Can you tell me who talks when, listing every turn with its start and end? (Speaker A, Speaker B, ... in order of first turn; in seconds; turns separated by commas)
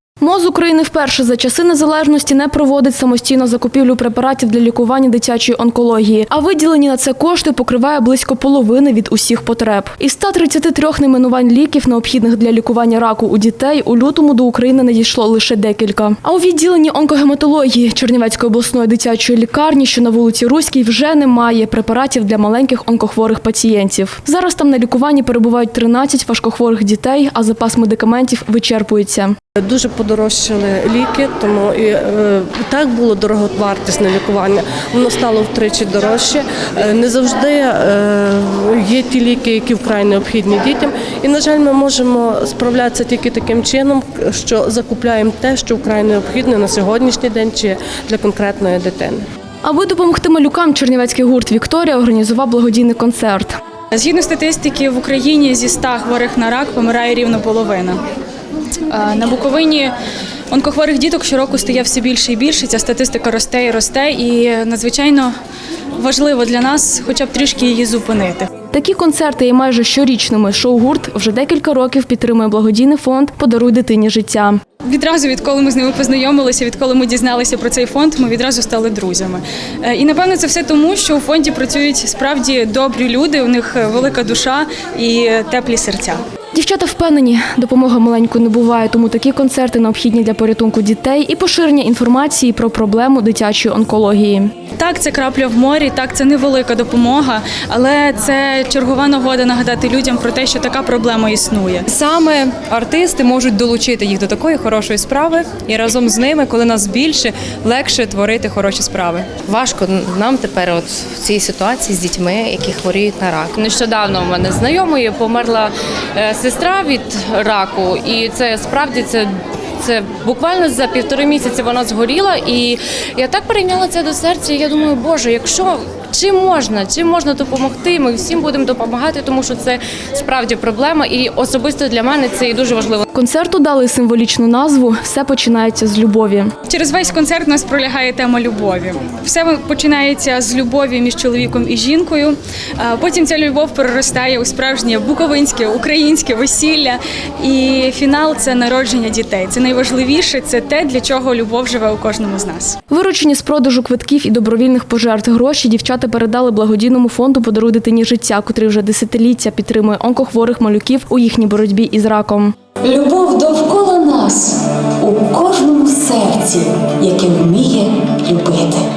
Speaker A: 0.2-29.4, Speaker B: 29.6-49.2, Speaker A: 49.6-53.6, Speaker C: 53.9-58.0, Speaker C: 58.9-59.9, Speaker C: 60.5-65.3, Speaker C: 66.0-68.5, Speaker A: 68.7-74.6, Speaker C: 74.9-86.2, Speaker A: 86.5-94.5, Speaker C: 94.8-101.9, Speaker D: 101.9-109.4, Speaker E: 109.4-133.0, Speaker A: 133.1-136.5, Speaker C: 136.7-152.8, Speaker A: 152.9-162.6, Speaker F: 162.8-168.8